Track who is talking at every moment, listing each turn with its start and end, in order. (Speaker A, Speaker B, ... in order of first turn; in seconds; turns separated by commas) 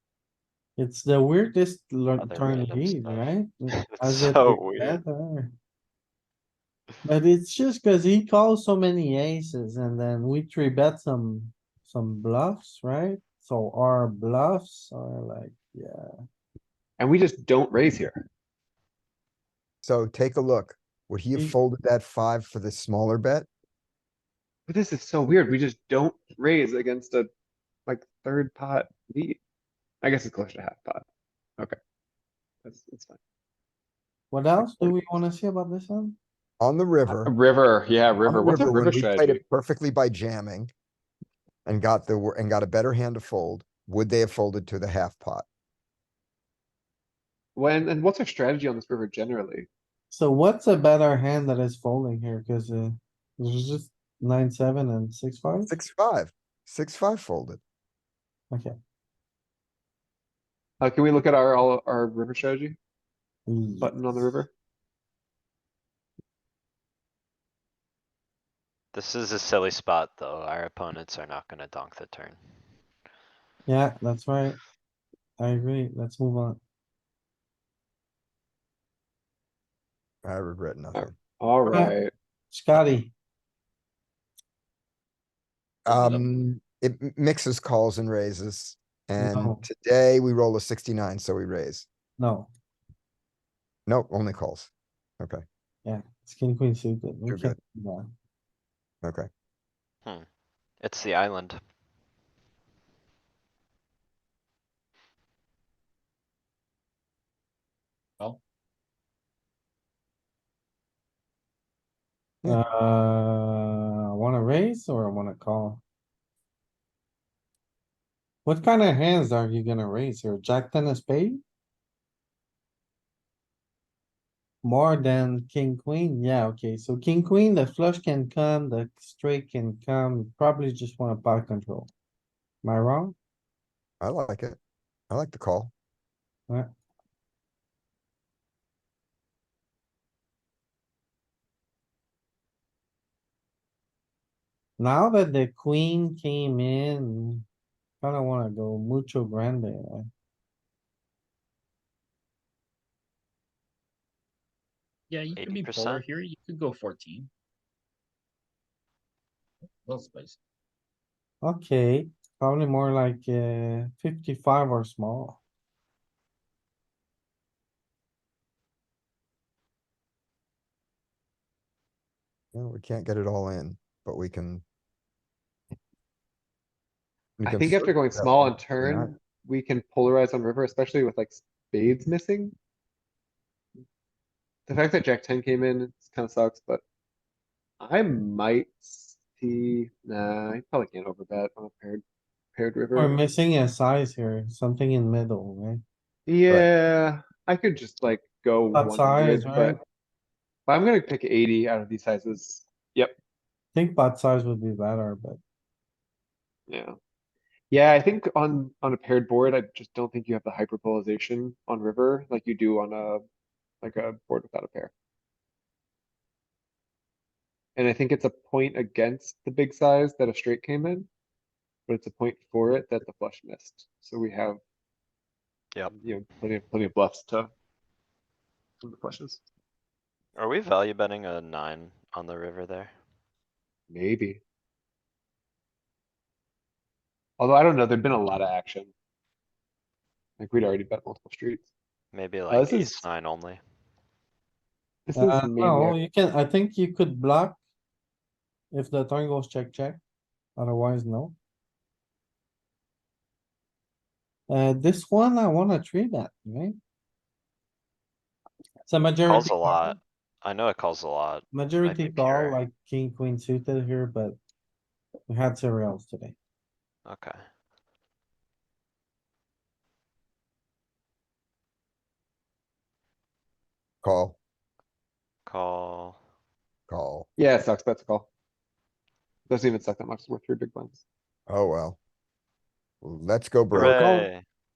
Speaker A: 0.8-5.5, Speaker B: 2.2-3.3, Speaker B: 4.0-5.0, Speaker A: 7.0-16.1, Speaker C: 17.0-18.2, Speaker D: 19.8-23.5, Speaker C: 24.7-27.3, Speaker C: 27.9-29.4, Speaker C: 30.0-31.0, Speaker C: 32.6-33.2, Speaker A: 34.3-36.2, Speaker D: 36.6-37.3, Speaker C: 37.1-39.4, Speaker D: 38.2-40.7, Speaker D: 41.6-45.4, Speaker C: 47.5-49.7, Speaker A: 50.1-55.7, Speaker D: 55.7-57.6, Speaker C: 60.8-62.8, Speaker A: 63.5-64.3, Speaker C: 63.8-64.5, Speaker B: 68.9-72.4, Speaker A: 73.7-74.6, Speaker A: 75.4-76.6, Speaker D: 80.2-81.1, Speaker C: 80.9-82.1, Speaker A: 81.7-81.9, Speaker A: 82.5-83.1, Speaker D: 85.8-91.8, Speaker E: 85.9-86.2, Speaker A: 89.2-89.6, Speaker A: 92.2-92.5, Speaker D: 93.9-95.4, Speaker A: 95.8-98.1, Speaker D: 97.3-97.6, Speaker D: 99.0-99.3, Speaker B: 100.8-101.6, Speaker A: 112.4-115.8, Speaker A: 118.4-121.4, Speaker A: 124.6-131.9, Speaker A: 132.6-133.1, Speaker D: 134.0-134.6, Speaker D: 135.1-135.7, Speaker A: 144.8-147.4, Speaker A: 148.0-150.1, Speaker E: 155.1-157.3, Speaker B: 155.3-156.0, Speaker E: 159.6-160.4, Speaker A: 161.4-165.4, Speaker D: 172.5-174.6, Speaker D: 177.4-179.1, Speaker C: 177.4-182.5, Speaker C: 184.7-186.8, Speaker C: 187.8-192.0, Speaker C: 192.6-193.2, Speaker A: 192.9-195.8, Speaker C: 196.3-199.8, Speaker A: 198.7-199.8, Speaker C: 200.7-203.1, Speaker A: 203.7-205.4, Speaker C: 206.7-207.0, Speaker C: 207.7-213.2, Speaker C: 213.8-214.9, Speaker C: 217.8-221.1, Speaker C: 221.9-224.6, Speaker C: 225.9-227.5, Speaker C: 228.8-229.4, Speaker B: 230.3-232.9, Speaker C: 233.9-234.4, Speaker C: 237.4-238.9, Speaker C: 240.4-241.7, Speaker B: 242.1-243.6, Speaker C: 242.5-243.1, Speaker C: 245.1-246.0, Speaker A: 245.2-247.6, Speaker A: 248.7-250.0, Speaker A: 250.6-251.3, Speaker A: 254.5-256.8, Speaker A: 258.9-259.9, Speaker B: 259.2-262.6, Speaker A: 261.5-264.4, Speaker A: 265.3-266.3, Speaker B: 267.1-267.4, Speaker D: 274.0-274.4, Speaker B: 275.4-276.2, Speaker D: 276.9-277.3, Speaker C: 277.4-278.3, Speaker C: 279.5-281.0, Speaker D: 281.5-282.0, Speaker D: 283.0-284.2, Speaker B: 283.7-284.4